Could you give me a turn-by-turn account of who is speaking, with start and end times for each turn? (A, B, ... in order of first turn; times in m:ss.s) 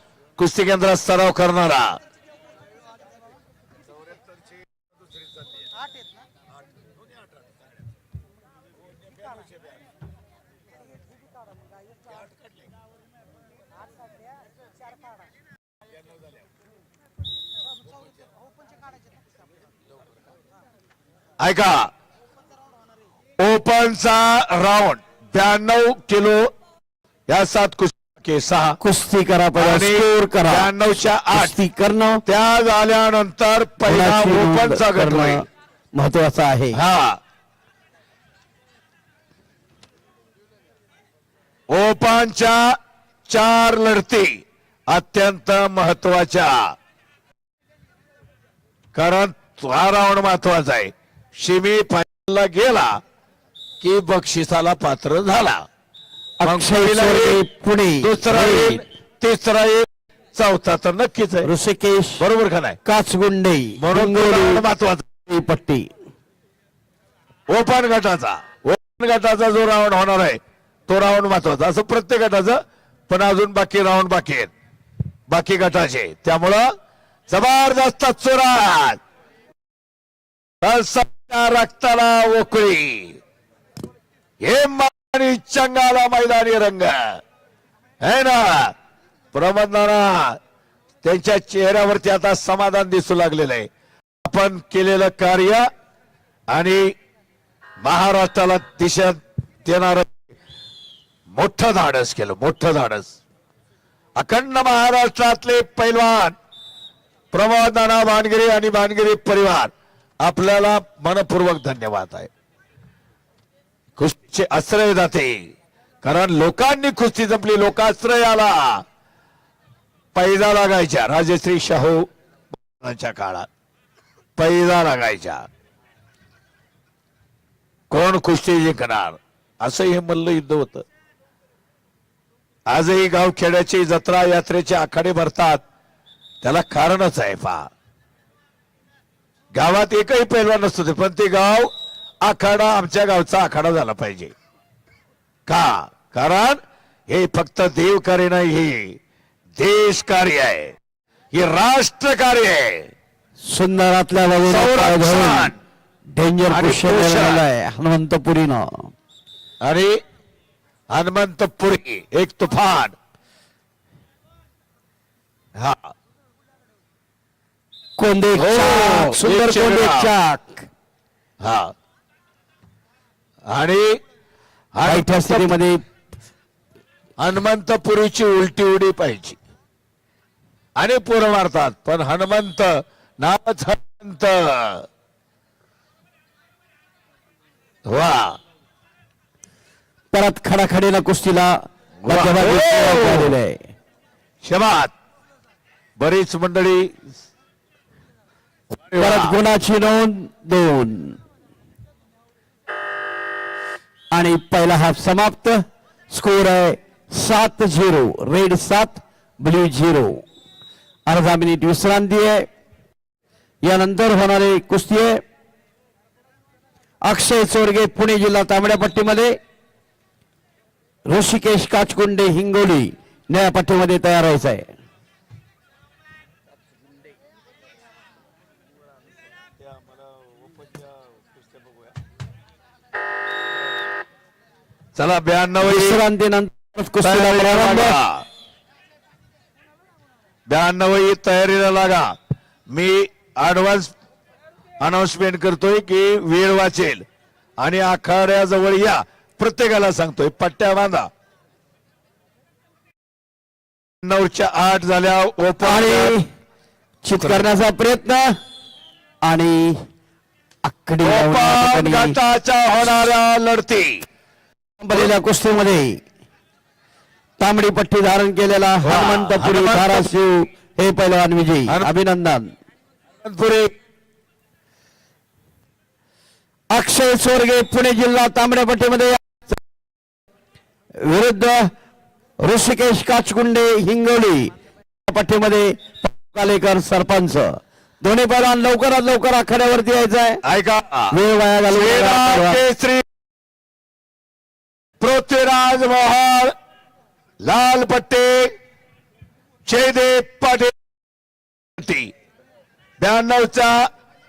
0:00.4-0:02.0 A
0:21.4-0:21.8 A
0:23.4-0:26.5 A
0:27.3-0:28.8 A
0:28.8-0:30.7 B
0:29.6-0:31.6 A
0:31.3-0:32.2 B
0:32.3-0:35.4 A
0:33.9-0:36.8 B
0:36.7-0:37.2 A
0:41.7-0:42.6 A
0:43.3-0:44.3 A
0:44.9-0:46.6 A
0:48.9-0:52.9 A
0:53.8-0:55.6 A
0:56.4-0:58.8 B
0:56.4-0:57.4 A
0:58.0-1:01.5 A
1:01.4-1:02.2 B
1:02.2-1:02.8 A
1:02.8-1:04.6 B
1:03.8-1:05.1 A
1:05.3-1:05.9 B
1:07.5-1:14.5 A
1:15.3-1:16.6 A
1:17.3-1:19.0 A
1:20.6-1:23.2 A
1:24.5-1:27.0 A
1:28.0-1:28.7 A
1:29.3-1:30.4 A
1:31.0-1:33.7 A
1:34.2-1:35.6 A
1:36.5-1:36.9 A
1:37.8-1:40.2 A
1:41.4-1:43.1 A
1:44.2-1:46.4 A
1:47.3-1:49.7 A
1:50.2-1:52.3 A
1:54.0-1:55.4 A
1:56.0-1:58.8 A
2:00.2-2:02.0 A
2:02.8-2:03.5 A
2:04.4-2:05.4 A
2:07.9-2:10.8 A
2:12.7-2:15.6 A
2:16.4-2:17.7 A
2:19.6-2:21.7 A
2:22.2-2:24.3 A
2:25.5-2:26.6 A
2:27.1-2:28.9 A
2:29.6-2:30.8 A
2:31.3-2:32.9 A
2:33.5-2:35.5 B
2:34.5-2:35.6 A
2:36.2-2:38.9 B
2:36.5-2:37.4 A
2:39.6-2:39.9 A
2:40.9-2:42.9 A
2:45.6-2:45.9 A
2:48.0-2:50.7 B
2:48.4-2:50.1 A
2:51.4-2:51.7 A
2:53.5-2:54.0 A
2:54.8-2:55.5 A
2:54.8-2:55.8 B
2:57.2-2:59.4 A
3:00.8-3:04.8 A
3:07.9-3:08.4 A
3:10.1-3:11.6 B
3:12.0-3:13.4 A
3:12.1-3:13.6 B
3:14.4-3:14.9 A
3:16.0-3:16.9 A
3:18.8-3:19.4 A
3:18.9-3:21.2 B
3:24.1-3:30.2 B
3:31.1-3:32.5 B
3:33.7-3:35.2 B
3:37.0-3:39.4 B
3:41.1-3:44.7 B
3:49.7-3:51.9 A
3:55.0-3:56.0 A
3:55.6-3:57.9 B
3:57.0-3:58.2 A
4:00.5-4:02.1 A
4:02.7-4:03.9 A
4:04.8-4:07.0 A
4:07.6-4:11.1 A
4:14.0-4:16.2 A
4:15.6-4:16.2 B
4:17.0-4:18.3 B
4:17.2-4:17.5 A
4:19.2-4:19.8 B
4:20.6-4:22.2 B
4:21.0-4:24.0 A
4:24.8-4:26.0 B
4:27.4-4:32.5 B
4:28.8-4:30.1 A
4:33.2-4:33.7 A
4:36.7-4:39.6 B
4:41.0-4:41.6 B
4:42.4-4:44.5 B
4:45.1-4:50.4 B
4:50.4-4:51.1 A
4:51.1-4:52.6 B
4:51.7-4:53.0 A
4:55.0-4:56.5 A
4:57.4-4:58.5 A
4:59.7-5:00.7 A
5:01.8-5:02.1 A
5:03.0-5:03.8 A